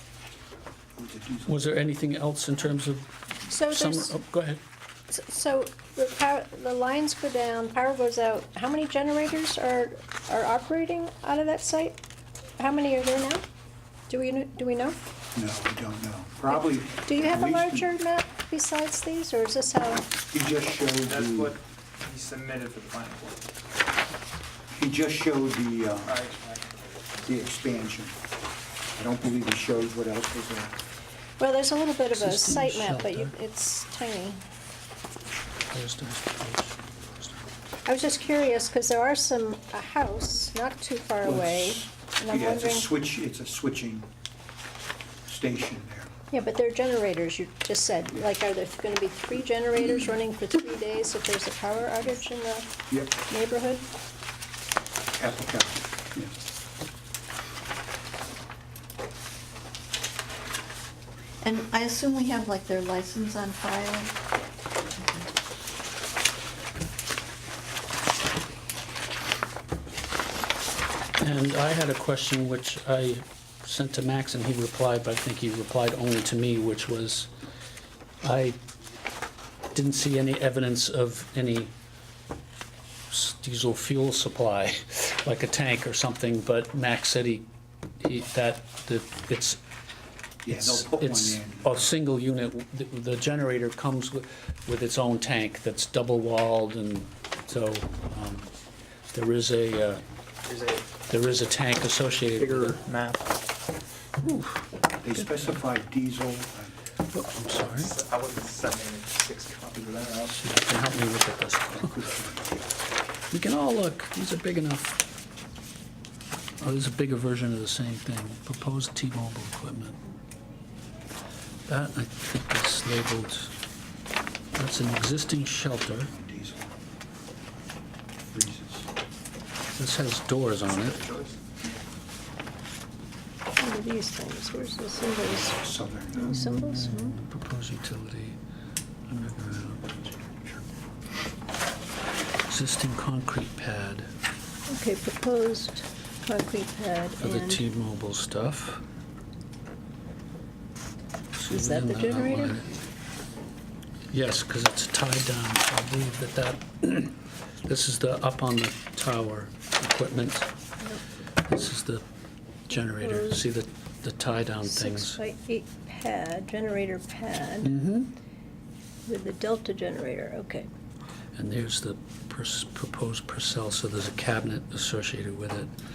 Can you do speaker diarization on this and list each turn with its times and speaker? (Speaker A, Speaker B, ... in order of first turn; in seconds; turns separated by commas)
Speaker A: 1.0-1.8, Speaker B: 1.5-4.6, Speaker C: 3.5-4.2, Speaker C: 5.1-12.0, Speaker C: 12.6-13.4, Speaker C: 14.1-15.0, Speaker A: 15.3-17.9, Speaker C: 16.5-20.1, Speaker A: 20.3-21.5, Speaker D: 21.0-23.4, Speaker A: 24.7-26.2, Speaker D: 26.0-27.3, Speaker A: 27.2-28.2, Speaker A: 29.0-30.8, Speaker C: 31.4-34.4, Speaker B: 32.1-33.3, Speaker B: 35.7-36.8, Speaker C: 37.9-42.9, Speaker A: 41.2-44.1, Speaker A: 45.3-46.1, Speaker C: 46.3-53.9, Speaker A: 52.9-53.1, Speaker A: 55.2-56.3, Speaker E: 61.4-64.2, Speaker E: 65.0-65.2, Speaker B: 71.2-77.3, Speaker B: 78.2-78.6, Speaker B: 79.7-81.7, Speaker B: 83.1-87.5, Speaker B: 88.0-89.6, Speaker A: 90.4-92.0, Speaker B: 90.5-98.5, Speaker B: 99.1-100.0, Speaker D: 100.5-100.9, Speaker B: 101.1-102.8, Speaker D: 102.4-103.4, Speaker B: 104.2-104.6, Speaker A: 105.0-106.7, Speaker B: 105.2-105.6, Speaker B: 107.1-107.9, Speaker D: 107.5-110.4, Speaker B: 110.3-112.0, Speaker A: 111.7-112.7, Speaker B: 113.3-115.0, Speaker B: 116.6-120.0, Speaker B: 121.7-123.5, Speaker B: 124.5-126.1, Speaker A: 126.1-126.8, Speaker A: 128.2-128.9, Speaker B: 129.7-131.0, Speaker C: 133.6-135.6, Speaker A: 135.3-136.4, Speaker C: 136.2-137.2, Speaker B: 136.3-138.4, Speaker B: 139.1-140.1, Speaker B: 142.5-144.1, Speaker C: 144.7-147.6, Speaker B: 147.2-148.8, Speaker B: 151.4-152.7, Speaker C: 151.5-152.6, Speaker B: 154.1-160.5, Speaker B: 161.4-162.0, Speaker B: 162.7-165.2, Speaker C: 162.8-163.4, Speaker C: 164.6-167.8, Speaker B: 167.6-168.1, Speaker C: 169.1-170.7, Speaker B: 171.3-175.7